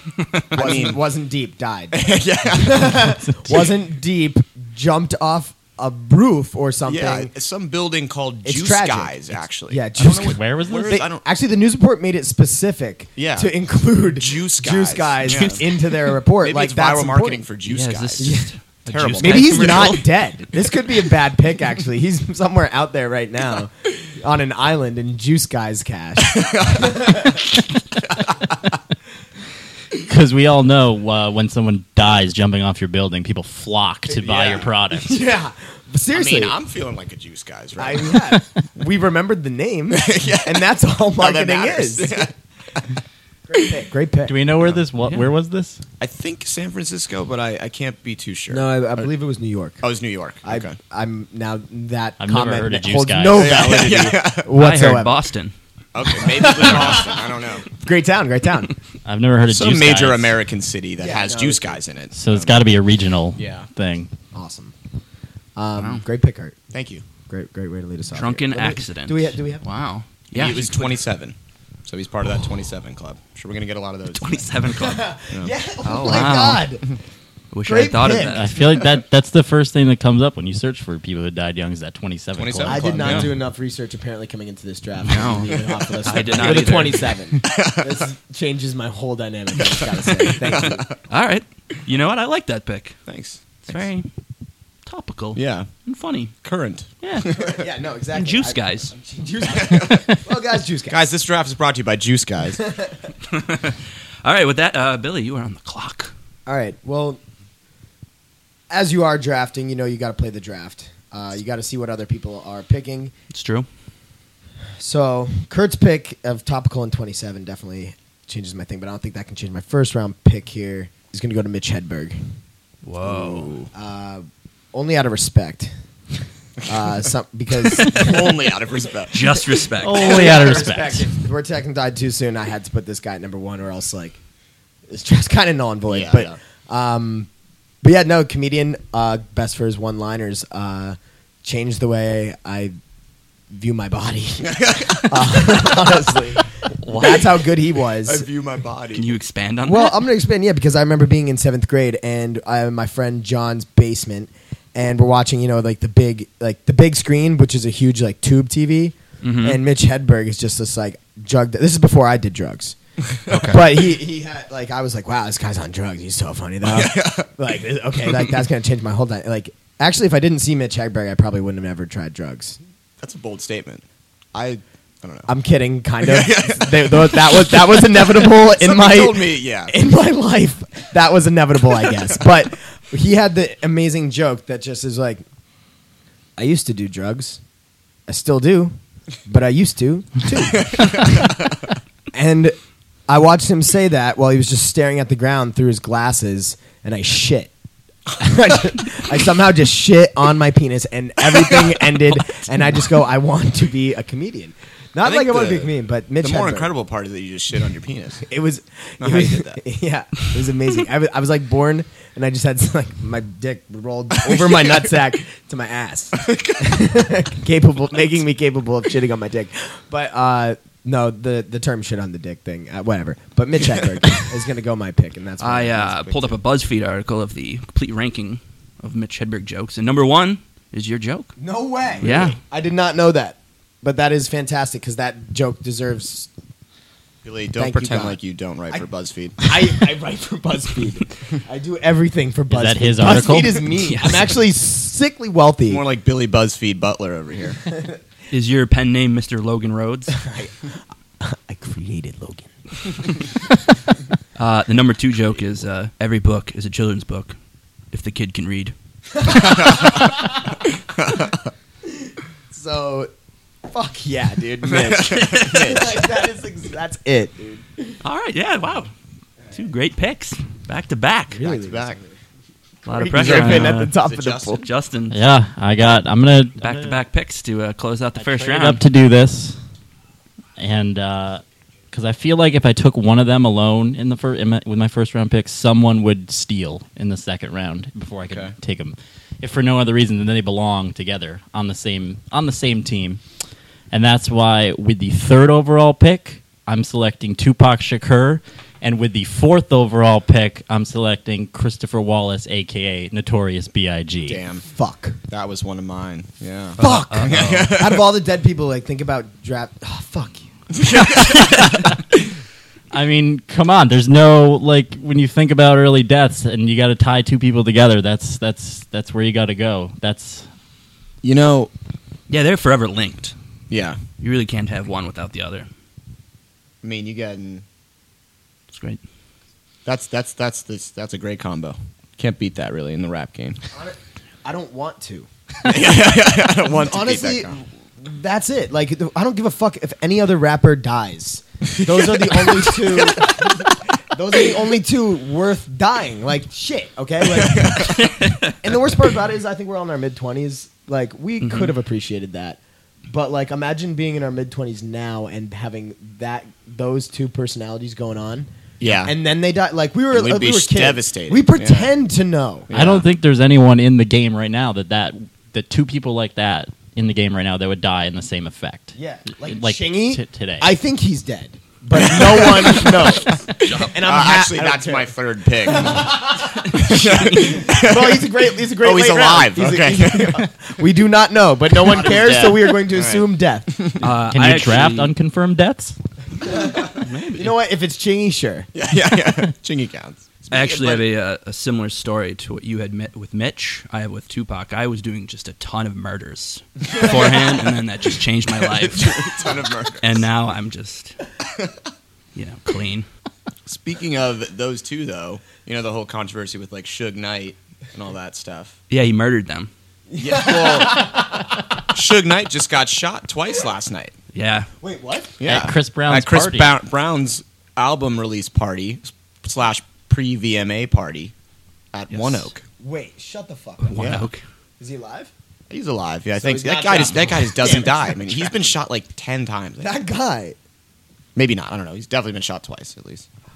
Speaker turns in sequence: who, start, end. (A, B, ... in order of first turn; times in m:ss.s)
0:00.5-0:01.0 A
0:00.5-0:07.3 B
0:01.9-0:03.2 A
0:06.9-0:11.2 A
0:08.4-0:17.4 B
0:10.0-0:11.0 C
0:13.2-0:13.5 A
0:14.1-0:15.6 A
0:15.2-0:15.7 D
0:16.4-0:18.3 A
0:17.7-0:20.1 D
0:18.2-0:18.5 B
0:18.9-0:19.9 A
0:19.2-0:27.4 B
0:26.2-0:28.4 A
0:30.0-0:35.2 C
0:34.1-0:34.7 A
0:34.9-0:36.6 B
0:36.1-0:38.4 A
0:37.8-0:42.3 B
0:39.9-0:40.6 A
0:41.2-0:42.3 A
0:43.5-0:44.4 B
0:44.3-0:45.8 C
0:46.0-0:49.0 A
0:48.5-0:49.8 B
0:49.8-0:50.8 A
0:50.4-0:55.2 B
0:52.2-0:53.6 C
0:53.3-0:54.5 A
0:54.5-0:55.5 D
0:56.0-0:57.7 A
0:56.2-0:58.8 B
0:59.0-1:00.4 C
0:59.5-1:02.6 A
1:01.0-1:01.8 B
1:02.1-1:04.1 C
1:03.4-1:03.7 A
1:04.3-1:04.7 B
1:05.6-1:06.6 B
1:05.8-1:06.0 D
1:06.7-1:07.0 A
1:07.3-1:09.6 B
1:08.1-1:11.0 D
1:10.4-1:11.3 A
1:11.9-1:14.6 A
1:14.1-1:15.1 D
1:14.8-1:16.8 B
1:15.8-1:16.7 D
1:17.5-1:18.5 D
1:17.6-1:18.4 B
1:18.1-1:23.3 C
1:22.4-1:23.4 A
1:22.6-1:30.8 B
1:25.1-1:27.1 D
1:27.4-1:28.0 A
1:29.7-1:31.0 A
1:31.1-1:33.0 D
1:33.1-1:33.8 A
1:33.6-1:34.1 D
1:34.9-1:36.3 D
1:35.4-1:35.7 A
1:36.4-1:37.6 A
1:37.0-1:37.3 D
1:37.2-1:41.0 B
1:38.1-1:38.9 D
1:39.5-1:40.2 A
1:40.9-1:42.6 A
1:42.6-1:43.0 B
1:43.3-1:46.1 D
1:46.5-1:47.2 B
1:48.7-1:53.1 B
1:53.3-1:53.7 D
1:54.8-2:02.2 B
2:02.8-2:03.7 D
2:03.0-2:05.7 B
2:06.7-2:08.4 B
2:07.7-2:09.2 A
2:09.1-2:10.5 D
2:09.8-2:11.1 C
2:09.9-2:14.2 B
2:14.9-2:17.3 B
2:15.9-2:16.3 A
2:17.8-2:22.7 B
2:23.5-2:28.3 B
2:24.4-2:25.9 A
2:26.8-2:27.2 D
2:28.0-2:29.2 A
2:29.0-2:30.0 D
2:29.6-2:42.8 B
2:39.2-2:39.6 D
2:43.1-2:43.7 A
2:43.3-2:43.6 D
2:43.4-2:52.6 B
2:46.6-2:47.3 A
2:53.0-2:55.3 A
2:55.3-3:05.2 B
2:56.0-2:59.7 A
3:06.4-3:07.4 B
3:08.1-3:08.8 B
3:09.3-3:11.3 B
3:10.5-3:11.6 A
3:12.1-3:12.6 B
3:13.1-3:17.5 B
3:18.2-3:26.7 B
3:25.0-3:25.7 A
3:26.2-3:28.2 A
3:28.3-3:46.1 B
3:29.0-3:29.6 A
3:34.5-3:34.8 A
3:36.2-3:36.8 A
3:45.4-3:51.3 D
3:51.4-3:56.3 B
3:52.0-3:52.4 A
3:52.0-3:52.4 D
3:57.2-3:59.5 A
3:57.6-3:58.2 B
3:59.4-4:05.8 B
4:02.5-4:03.6 C
4:03.8-4:04.3 D
4:05.7-4:07.7 A
4:08.3-4:10.2 D
4:10.1-4:13.0 B
4:14.4-4:17.4 D
4:17.9-4:18.7 D
4:19.2-4:20.1 B
4:19.3-4:20.2 A
4:21.0-4:21.4 A
4:21.8-4:23.1 B
4:23.7-4:28.0 B
4:24.7-4:25.9 A
4:25.1-4:25.9 D
4:28.0-4:28.9 D
4:29.5-4:31.4 D
4:31.3-4:32.1 B
4:31.4-4:32.0 A
4:32.8-4:34.6 B
4:32.9-4:33.9 D
4:33.2-4:34.7 A
4:34.6-4:35.2 D
4:35.1-4:37.0 C
4:36.6-4:38.8 D
4:38.2-4:39.6 C
4:40.6-4:53.2 C
4:48.3-4:48.5 A
4:53.9-5:04.4 C
5:04.3-5:04.6 A
5:04.7-5:05.2 B
5:05.3-5:08.1 A
5:06.8-5:07.8 D
5:06.8-5:11.6 B
5:10.7-5:11.7 A
5:12.9-5:20.5 C
5:21.2-5:21.7 A
5:22.3-5:23.4 D
5:23.7-5:24.0 A
5:24.2-5:25.7 D
5:26.8-5:27.6 A
5:28.7-5:29.0 D
5:29.9-5:33.6 A
5:33.7-5:48.1 B
5:35.6-5:37.6 A
5:41.7-5:43.8 A
5:47.3-5:48.0 A
5:47.9-5:48.5 D
5:48.6-5:58.5 B
5:51.4-5:51.7 D
5:58.8-5:59.1 A
5:59.0-6:02.7 B
6:00.1-6:01.9 A
6:02.7-6:03.1 A
6:02.7-6:10.7 C
6:09.0-6:15.1 B
6:11.9-6:20.5 A
6:13.6-6:13.9 D
6:15.6-6:23.7 B
6:16.6-6:17.6 D
6:21.8-6:24.0 A
6:24.0-6:25.1 D
6:24.3-6:26.0 C
6:26.4-6:27.5 D
6:26.4-6:28.7 B
6:28.7-6:31.0 A
6:30.5-6:39.2 D
6:38.7-6:40.2 A
6:40.0-6:41.2 D
6:42.4-6:43.1 D
6:43.7-6:48.8 A
6:48.9-6:49.7 D
6:50.1-6:51.6 B
6:50.2-6:51.2 A
6:51.9-6:54.2 A
6:54.3-6:54.7 D
6:54.8-6:55.4 B
6:55.4-7:01.3 A
6:55.4-6:56.7 C
7:01.9-7:02.6 A
7:02.1-7:02.5 D
7:02.8-7:04.2 B
7:03.8-7:04.4 D
7:04.0-7:04.3 A
7:04.8-7:05.3 B
7:05.7-7:10.0 A
7:06.4-7:08.7 B
7:09.8-7:10.6 B
7:11.4-7:13.3 A